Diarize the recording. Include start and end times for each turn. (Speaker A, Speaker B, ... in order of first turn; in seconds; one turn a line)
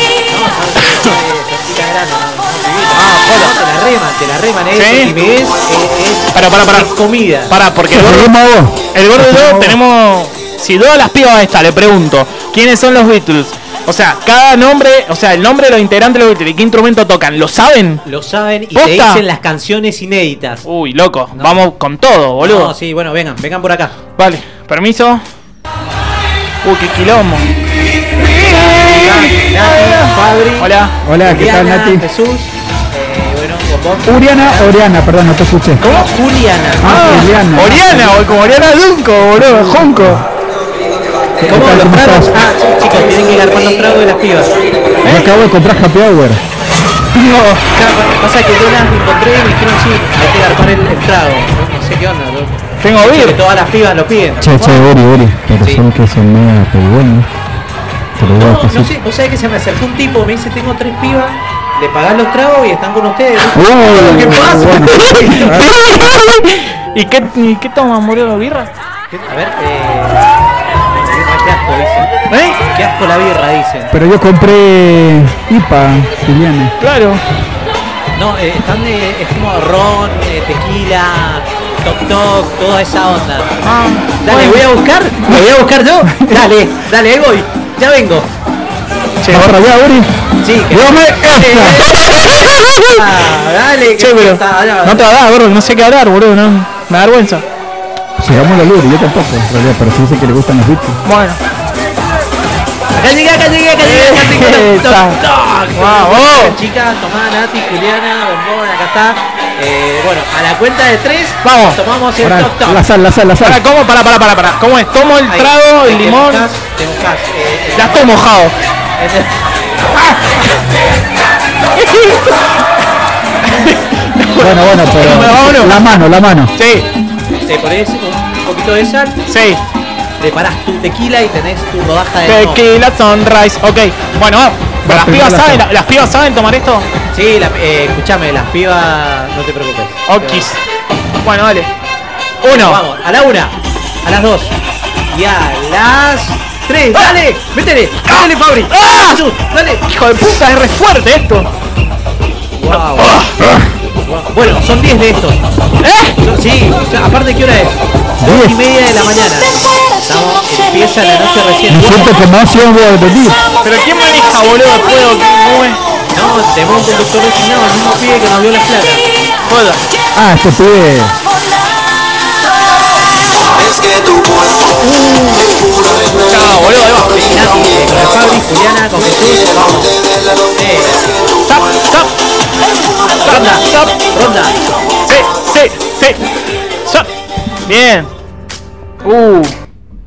Speaker A: 0.2-7.5
Speaker B: 3.0-3.5
Speaker B: 4.7-5.1
Speaker B: 6.3-6.9
Speaker B: 7.5-8.3
Speaker C: 7.9-9.8
Speaker B: 8.9-18.0
Speaker A: 18.0-20.6
Speaker B: 18.7-19.2
Speaker B: 20.6-22.7
Speaker A: 21.3-21.6
Speaker A: 22.4-24.0
Speaker B: 24.2-25.2
Speaker B: 26.6-27.5
Speaker A: 28.2-34.8
Speaker B: 28.3-30.9
Speaker C: 31.0-32.1
Speaker C: 34.0-35.9
Speaker A: 35.8-37.2
Speaker C: 36.8-38.1
Speaker B: 36.8-40.2
Speaker C: 39.7-40.2
Speaker C: 41.4-42.4
Speaker A: 41.5-44.5
Speaker B: 45.0-45.3
Speaker C: 45.0-46.4
Speaker B: 47.1-47.6
Speaker A: 47.7-54.9
Speaker B: 52.8-53.4
Speaker C: 54.4-57.3
Speaker C: 58.2-58.9
Speaker A: 58.4-65.0
Speaker C: 63.5-66.0
Speaker B: 64.7-68.7
Speaker A: 69.1-70.3
Speaker A: 70.9-72.1
Speaker B: 72.3-72.6
Speaker A: 72.7-73.9
Speaker C: 73.9-76.7
Speaker B: 76.8-77.2
Speaker A: 78.1-83.5
Speaker B: 83.6-84.6
Speaker A: 84.2-88.3
Speaker B: 89.2-89.7
Speaker C: 89.3-90.2
Speaker A: 90.4-95.1
Speaker C: 90.7-91.8
Speaker B: 92.2-93.0
Speaker B: 94.0-97.4
Speaker C: 98.2-101.0
Speaker B: 101.0-101.4
Speaker A: 102.9-112.9
Speaker B: 103.8-105.2
Speaker B: 105.8-106.6
Speaker B: 111.4-111.8
Speaker C: 112.2-113.6
Speaker B: 113.4-116.5
Speaker A: 115.2-118.2
Speaker B: 117.8-118.5
Speaker A: 119.0-119.5
Speaker B: 121.8-122.4
Speaker B: 123.5-125.9
Speaker C: 124.4-126.5
Speaker B: 126.6-126.9
Speaker A: 127.4-129.2
Speaker B: 129.3-129.6
Speaker A: 130.2-132.6
Speaker B: 132.2-136.9
Speaker C: 134.8-135.7
Speaker A: 137.1-140.5
Speaker B: 140.1-140.6
Speaker B: 141.2-141.7
Speaker B: 142.4-142.8
Speaker A: 142.4-149.8
Speaker B: 148.1-149.2
Speaker B: 149.9-151.5
Speaker A: 152.6-153.2
Speaker B: 152.7-153.4
Speaker A: 154.1-155.4
Speaker B: 155.8-156.2
Speaker A: 156.2-162.2
Speaker C: 158.2-158.6
Speaker C: 161.7-163.4
Speaker B: 163.6-165.8
Speaker A: 166.1-169.1
Speaker B: 169.5-169.8
Speaker C: 170.1-171.2
Speaker B: 175.0-175.4
Speaker B: 176.2-177.2
Speaker A: 177.1-181.0
Speaker B: 181.4-182.1
Speaker A: 183.2-184.6
Speaker B: 183.2-183.9
Speaker B: 185.1-186.2
Speaker B: 187.7-188.1
Speaker B: 189.0-189.5